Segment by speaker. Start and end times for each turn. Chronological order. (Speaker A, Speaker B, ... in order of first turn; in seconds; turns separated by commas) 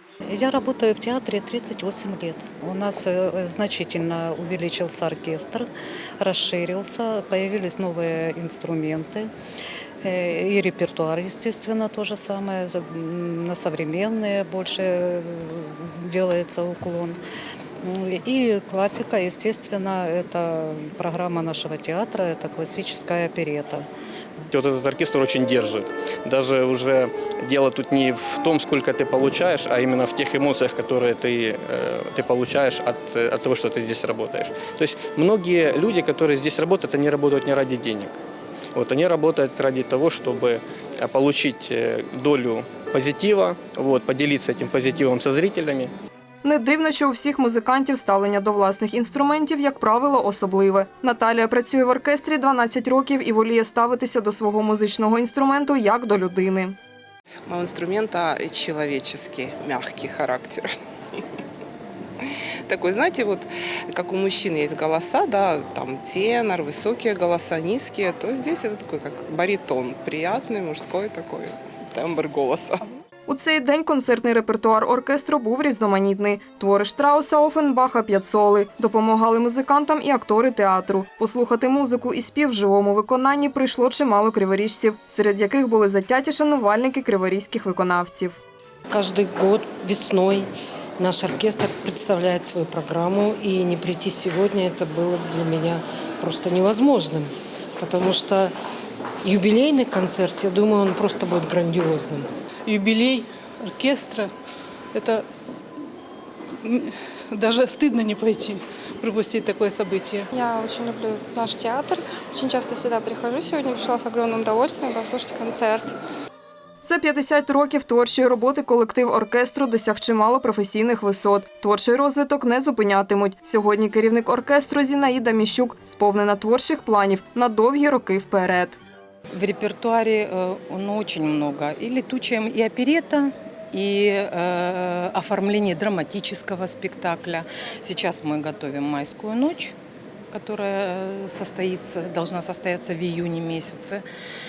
Speaker A: 0.3-5.7, Speaker A: 6.2-9.3, Speaker A: 10.0-17.2, Speaker A: 17.8-23.9, Speaker B: 24.5-38.1, Speaker B: 38.7-45.9, Speaker C: 46.4-56.7, Speaker D: 57.5-60.7, Speaker D: 62.7-72.9, Speaker C: 73.3-88.4, Speaker E: 88.9-90.5, Speaker E: 91.0-98.5, Speaker E: 99.2-102.3, Speaker F: 102.7-104.3, Speaker F: 104.9-105.2, Speaker F: 106.6-110.3, Speaker G: 110.3-115.9, Speaker C: 116.8-128.8, Speaker H: 129.3-139.7, Speaker H: 140.3-144.0